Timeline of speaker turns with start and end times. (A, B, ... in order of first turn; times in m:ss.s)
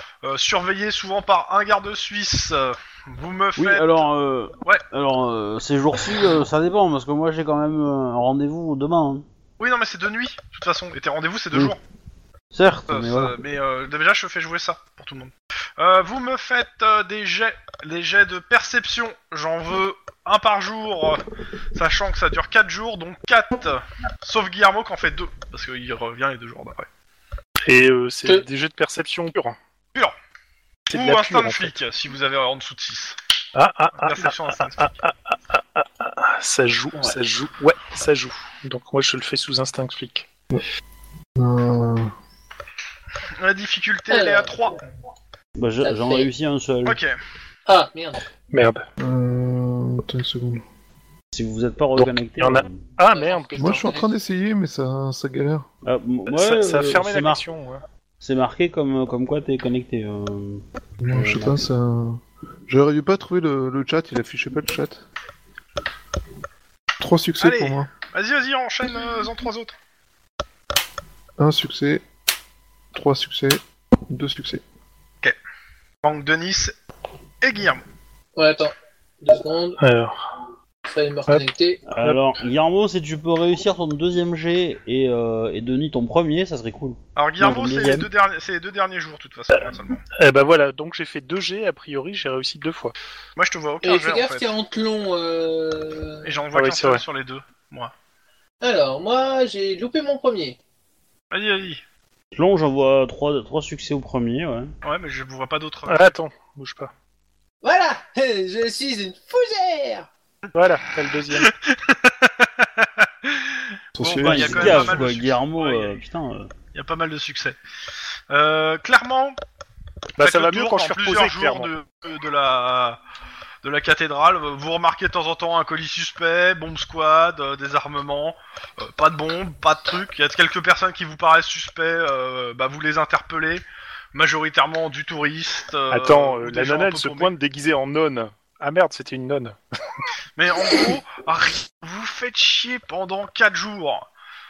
0:00.2-0:04.1 A
0:03.6-0:09.2 B
0:09.6-0:11.8 A
0:12.5-0:13.3 B
0:12.9-0:21.2 A
0:21.7-0:26.9 A
0:27.6-0:29.6 C
0:30.9-0:31.7 C
0:30.9-0:33.2 A
0:33.5-0:40.3 C
0:33.9-0:34.9 A
0:41.4-0:42.1 D
0:43.4-0:44.8 A
0:44.1-0:44.5 E
0:45.6-0:47.0 B
0:45.8-0:46.3 E
0:46.8-0:47.2 A
0:47.6-0:48.2 E
0:48.5-0:48.8 C
0:49.0-0:50.6 D
0:51.3-0:52.8 B
0:51.9-0:53.9 C
0:53.1-0:54.1 E
0:53.6-0:55.6 D
0:55.8-0:57.4 B
0:56.3-0:57.8 C
0:58.2-1:01.6 B
1:01.0-1:05.0 D
1:07.0-1:07.9 D
1:07.4-1:09.7 A
1:11.4-1:12.0 D
1:12.9-1:14.6 D
1:16.0-1:16.8 A
1:17.4-1:17.8 A
1:18.4-1:19.8 E
1:19.8-1:20.2 C
1:20.8-1:21.8 E
1:21.9-1:28.1 B
1:27.2-1:30.0 A
1:29.6-1:32.9 C
1:33.4-1:34.5 A
1:33.8-1:36.3 E
1:36.2-1:37.9 A
1:36.5-1:37.0 C
1:38.6-1:40.6 E
1:41.3-1:41.8 A
1:42.3-1:44.7 B
1:44.8-1:46.1 A
1:45.9-1:46.9 C
1:47.6-1:50.1 E
1:50.5-1:51.5 C
1:51.3-1:56.0 A
1:53.9-1:55.1 D
1:54.2-1:56.5 B
1:56.7-1:57.6 A
1:58.3-1:59.4 A
2:00.2-2:01.7 C
2:00.2-2:03.0 A
2:03.6-2:13.6 A
2:14.1-2:17.3 A
2:15.9-2:19.6 C
2:20.4-2:24.1 A